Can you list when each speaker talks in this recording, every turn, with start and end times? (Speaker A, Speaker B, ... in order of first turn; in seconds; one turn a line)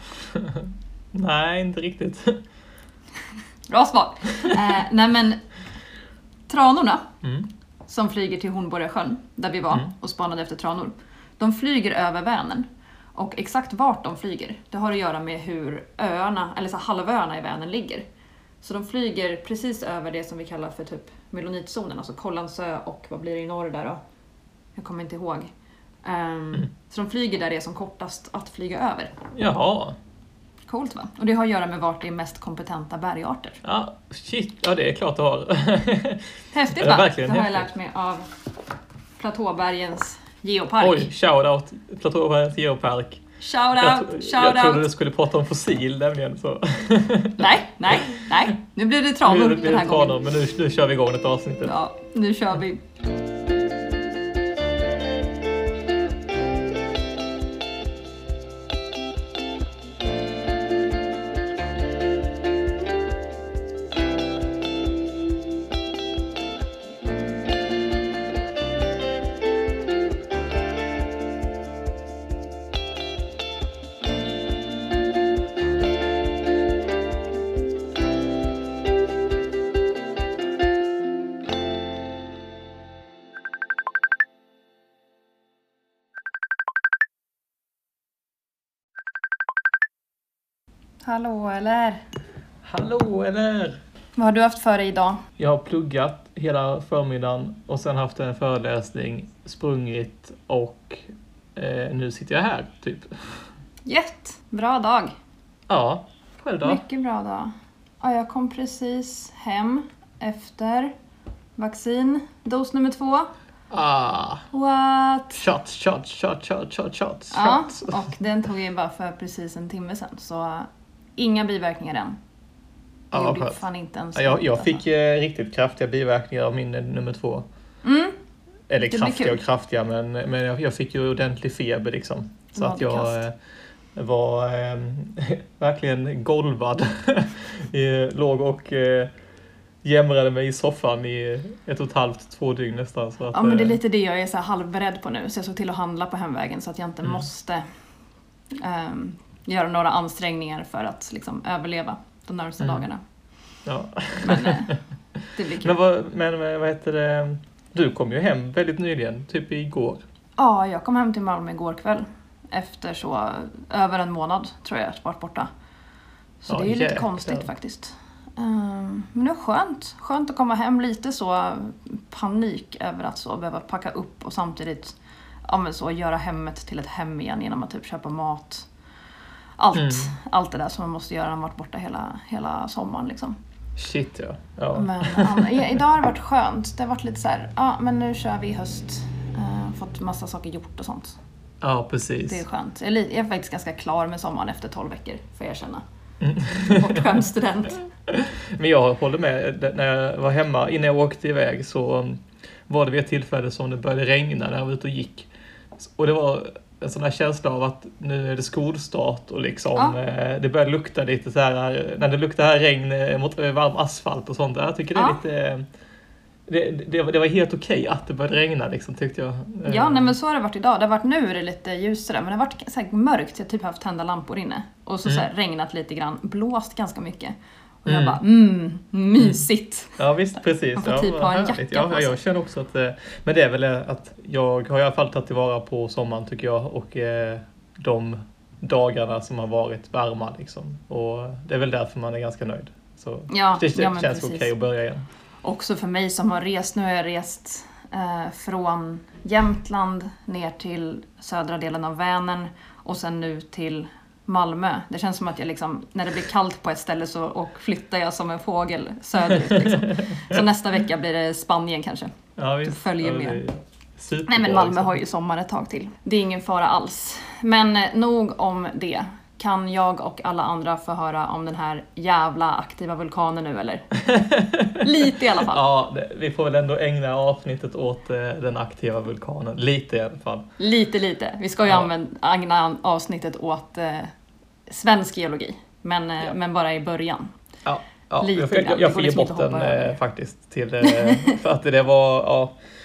Speaker A: 0.3-2.4
Speaker B: 3.7-5.5
Speaker B: 6.5-7.2
Speaker A: 7.2-7.5
Speaker B: 7.9-18.1
Speaker B: 18.6-24.0
Speaker B: 24.8-25.5
Speaker B: 26.0-29.2
Speaker A: 29.3-30.0
Speaker B: 30.7-33.6
Speaker A: 33.6-37.7
Speaker B: 36.5-38.4
Speaker B: 39.2-41.1
Speaker A: 40.8-43.2
Speaker B: 43.4-44.9
Speaker A: 43.8-48.5
Speaker B: 47.4-50.1
Speaker A: 49.2-51.7
Speaker B: 51.6-52.8
Speaker B: 91.0-92.0
Speaker A: 92.6-93.8
Speaker B: 94.2-95.2
Speaker A: 95.4-103.1
Speaker B: 103.9-105.1
Speaker A: 105.7-106.8
Speaker B: 106.6-110.9
Speaker B: 111.6-113.3
Speaker A: 113.7-114.4
Speaker B: 114.5-115.4
Speaker A: 115.3-118.0
Speaker B: 117.3-122.2
Speaker A: 123.1-123.6
Speaker B: 123.1-124.8
Speaker A: 124.2-127.5
Speaker B: 127.8-128.2
Speaker A: 128.7-133.3
Speaker B: 128.9-129.4
Speaker B: 132.5-133.2
Speaker A: 133.9-139.1
Speaker A: 139.8-143.8
Speaker B: 143.3-147.7
Speaker B: 148.5-153.0
Speaker A: 153.7-154.8
Speaker B: 154.2-154.8
Speaker B: 155.3-155.8
Speaker A: 155.6-160.0
Speaker B: 160.4-165.5
Speaker B: 166.4-178.7
Speaker A: 166.5-167.5
Speaker B: 179.6-183.4
Speaker A: 179.7-180.1
Speaker A: 183.8-185.8
Speaker B: 184.7-191.2
Speaker A: 191.6-192.4
Speaker B: 192.3-195.8
Speaker A: 196.2-197.2
Speaker B: 196.6-197.9
Speaker A: 198.1-215.7
Speaker B: 214.9-215.2
Speaker A: 216.5-220.1
Speaker B: 219.6-230.0
Speaker A: 227.9-228.2
Speaker A: 229.2-229.4
Speaker A: 230.0-245.1
Speaker B: 230.8-232.2
Speaker B: 243.3-244.5
Speaker B: 245.4-262.1
Speaker A: 259.3-260.4
Speaker A: 262.4-265.0
Speaker B: 262.6-263.4
Speaker B: 264.3-273.9
Speaker A: 274.0-280.5
Speaker B: 274.8-275.6
Speaker B: 280.6-284.1
Speaker B: 284.7-287.3
Speaker A: 287.6-292.6
Speaker B: 288.2-289.9
Speaker B: 290.8-291.4